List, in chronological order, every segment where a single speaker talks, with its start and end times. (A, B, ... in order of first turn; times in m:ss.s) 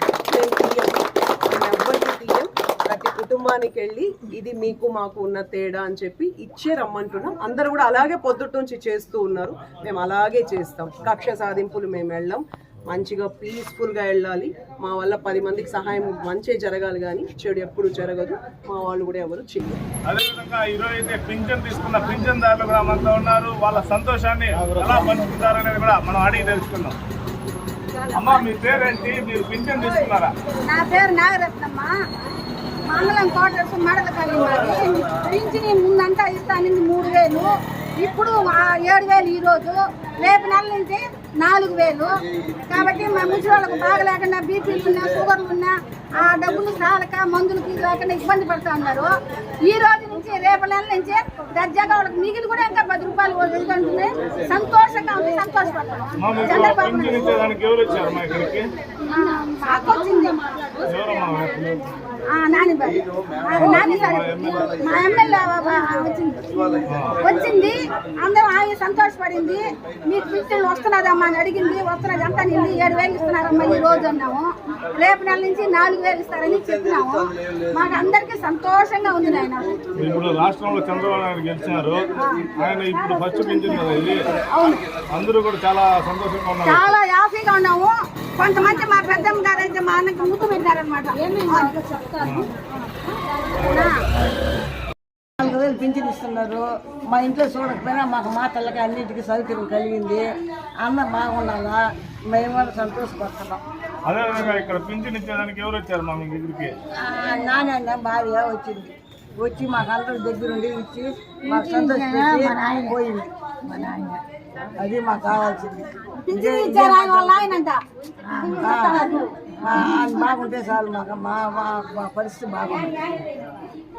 0:00.3-0:19.8 A
0:20.0-0:27.0 B
0:28.1-0:30.3 B
0:30.7-0:31.9 C
0:32.9-0:42.1 C
0:42.7-0:49.1 C
0:49.6-0:57.4 C
0:56.2-0:58.7 B
0:59.0-1:00.4 C
1:00.8-1:01.9 B
1:02.3-1:19.7 C
1:03.5-1:04.9 B
1:06.9-1:07.2 B
1:20.0-1:22.0 B
1:22.2-1:24.8 C
1:22.6-1:24.3 B
1:25.1-1:26.9 B
1:26.6-1:34.0 C
1:32.2-1:32.5 B
1:35.4-1:40.2 D
1:40.8-1:43.6 D
1:44.1-1:46.7 B
1:47.0-1:54.2 D
1:51.5-1:52.9 C
1:54.8-1:57.6 D
1:56.3-1:57.8 C
1:58.3-2:03.2 D
1:58.4-1:59.5 C